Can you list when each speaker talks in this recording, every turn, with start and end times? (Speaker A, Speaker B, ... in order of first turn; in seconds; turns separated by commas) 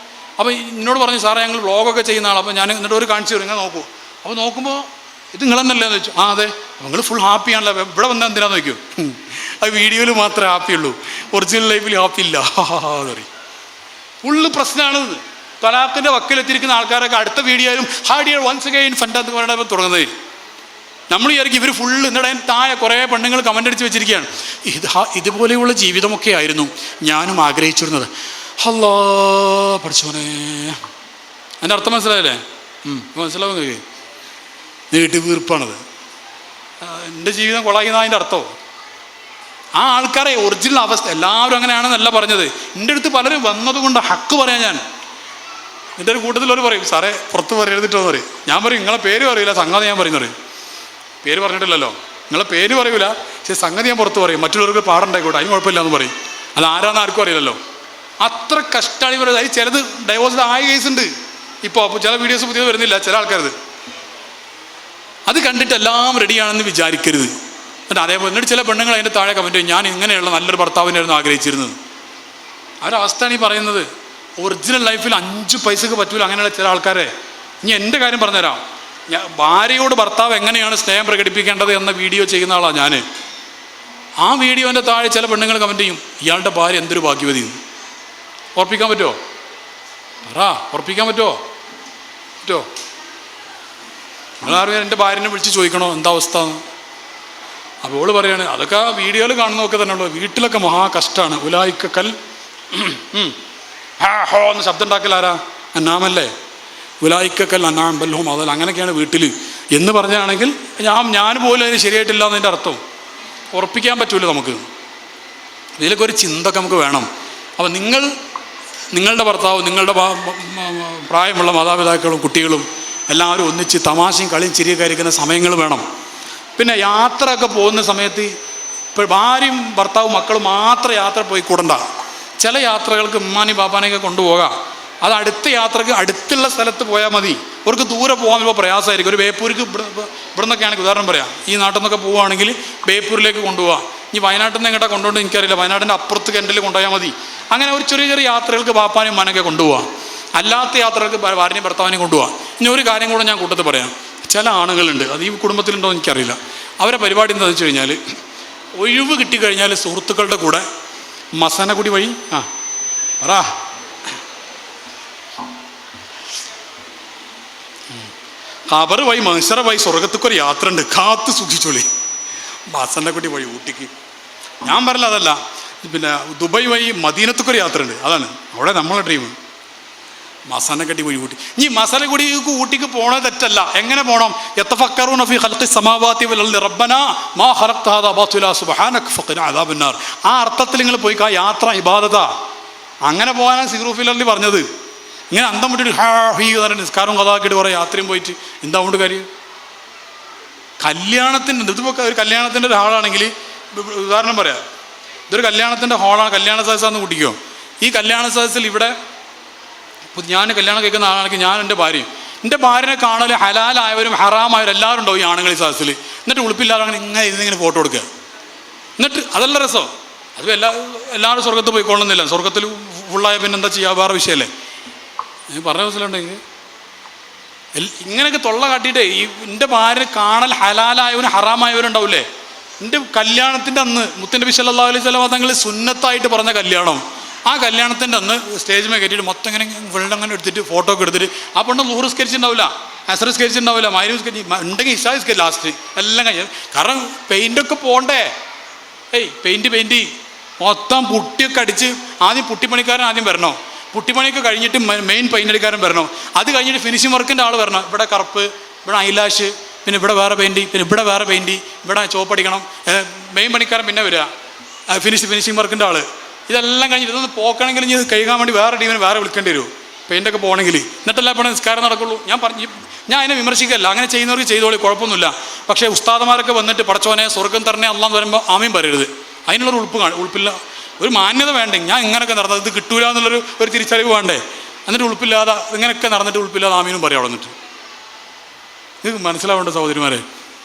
Speaker A: 0.4-13.3, Speaker A: 14.2-20.1, Speaker A: 21.1-30.8, Speaker A: 31.6-33.8, Speaker A: 34.9-35.8, Speaker A: 36.8-38.5, Speaker A: 39.8-44.8, Speaker A: 46.0-50.3, Speaker A: 51.2-57.6, Speaker A: 58.2-61.1, Speaker A: 61.6-63.5, Speaker A: 65.3-67.3, Speaker A: 67.9-71.8, Speaker A: 72.8-73.9, Speaker A: 74.4-77.1, Speaker A: 77.6-83.0, Speaker A: 84.2-87.6, Speaker A: 88.6-89.2, Speaker A: 90.2-91.4, Speaker A: 94.4-96.6, Speaker A: 97.8-102.2, Speaker A: 102.7-103.4, Speaker A: 104.0-106.3, Speaker A: 107.0-112.8, Speaker A: 113.5-114.7, Speaker A: 115.8-118.1, Speaker A: 118.9-125.8, Speaker A: 126.6-128.3, Speaker A: 128.9-131.8, Speaker A: 132.4-158.0, Speaker A: 158.8-160.7, Speaker A: 161.3-162.5, Speaker A: 163.2-163.6, Speaker A: 168.7-171.9, Speaker A: 172.7-173.9, Speaker A: 174.6-179.4, Speaker A: 180.5-192.3, Speaker A: 193.0-194.7, Speaker A: 195.3-199.3, Speaker A: 200.8-204.6, Speaker A: 205.3-208.9, Speaker A: 210.1-218.1, Speaker A: 219.0-224.5, Speaker A: 225.5-226.4, Speaker A: 227.8-232.3, Speaker A: 232.8-248.3, Speaker A: 249.1-264.3, Speaker A: 264.9-287.5, Speaker A: 289.0-290.2